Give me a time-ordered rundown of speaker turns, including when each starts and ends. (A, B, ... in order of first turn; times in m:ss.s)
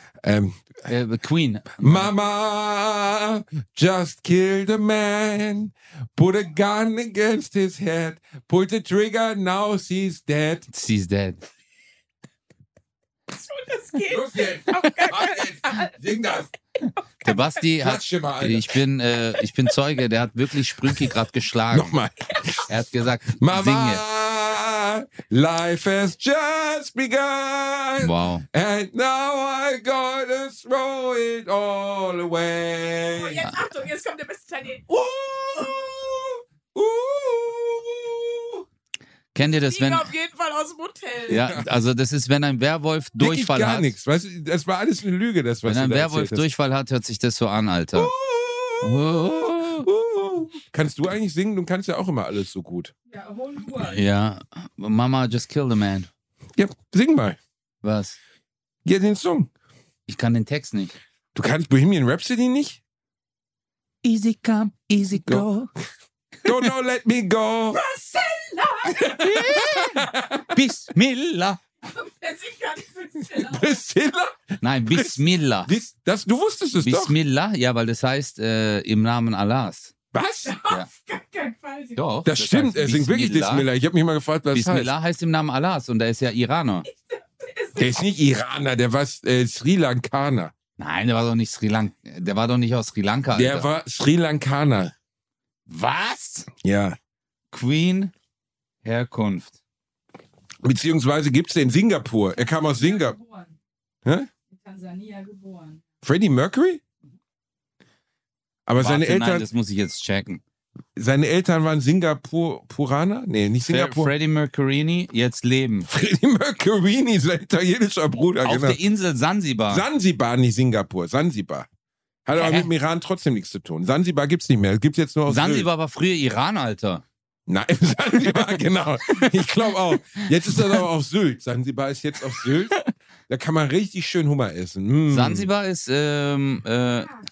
0:00.2-0:00.6 A
0:00.9-0:02.1 B
0:01.8-0:10.7 A
0:10.7-0:11.4 B
0:13.3-0:15.9 C
0:14.0-0:16.5 A
0:17.2-0:21.9 B
0:17.8-0:18.8 A
0:21.7-0:22.7 A
0:22.7-0:24.0 B
0:23.3-0:33.5 A
0:28.0-0:28.4 B
0:33.1-0:34.8 C
0:34.9-0:38.6 A
0:39.3-0:40.1 B
0:39.5-0:41.5 C
0:41.3-0:43.9 B
0:41.3-0:41.7 A
0:43.2-0:46.5 A
0:45.6-0:48.1 B
0:47.9-0:52.9 A
0:48.8-0:49.9 B
0:53.1-0:54.0 C
0:53.7-0:56.1 B
0:56.6-0:57.4 A
0:57.8-0:58.2 B
0:58.8-0:59.5 A
1:00.1-1:00.9 B
1:01.3-1:02.8 A
1:04.0-1:05.7 B
1:06.4-1:07.8 A
1:07.7-1:09.6 C
1:08.9-1:10.6 A
1:09.2-1:11.6 B
1:11.8-1:13.8 C
1:13.2-1:17.2 A
1:14.6-1:15.7 B
1:16.8-1:19.9 B
1:20.1-1:20.6 A
1:20.5-1:22.0 C
1:22.0-1:23.7 B
1:22.2-1:24.9 A
1:24.5-1:26.8 B
1:27.4-1:27.8 C
1:27.8-1:30.5 A
1:30.8-1:33.7 B
1:33.3-1:34.9 A
1:35.7-1:36.5 B
1:36.6-1:37.0 A
1:37.5-1:38.1 B
1:38.8-1:39.6 B
1:40.6-1:43.2 A
1:42.9-1:43.5 C
1:44.5-1:45.8 C
1:46.0-1:46.8 A
1:48.7-1:49.5 A
1:48.8-1:50.4 B
1:51.0-1:54.1 A
1:53.7-1:55.9 B
1:55.9-1:58.8 A
1:58.4-1:59.8 B
1:59.7-2:01.7 A
2:02.2-2:05.7 A
2:02.3-2:02.7 B
2:05.3-2:07.0 B
2:07.5-2:15.5 A
2:08.2-2:10.8 B
2:12.4-2:12.9 B
2:15.1-2:17.1 B